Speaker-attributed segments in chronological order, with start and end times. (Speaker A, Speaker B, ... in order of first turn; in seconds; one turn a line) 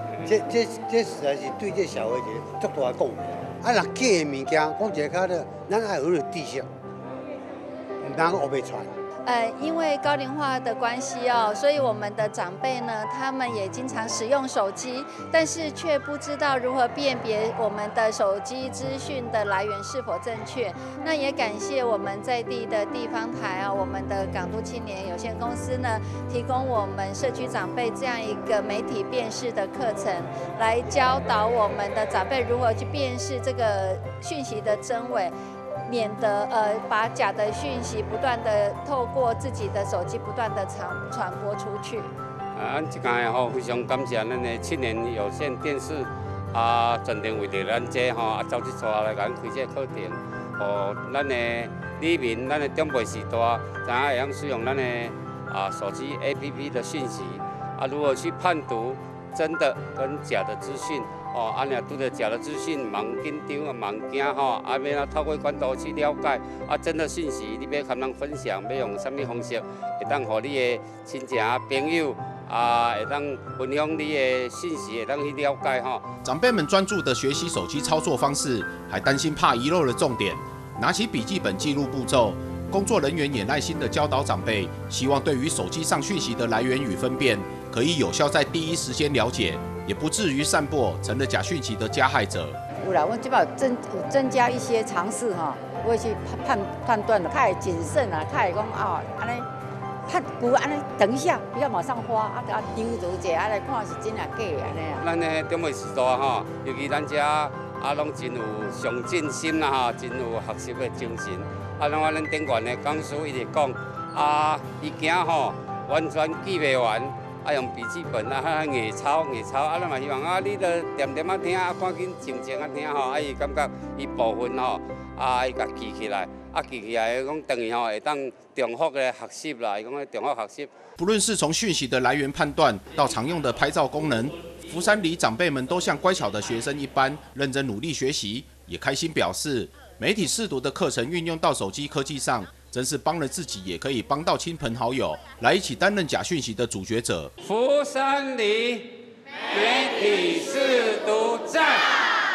Speaker A: 0.2-6.7
Speaker A: 8.0-8.9
Speaker B: 9.2-35.3
Speaker B: 35.9-42.1
Speaker C: 42.5-76.0
Speaker D: 76.2-92.6
Speaker E: 92.8-99.5
Speaker E: 100.0-105.0
Speaker C: 105.0-130.7
Speaker D: 131.0-147.3
Speaker C: 147.4-148.9
Speaker C: 149.5-152.1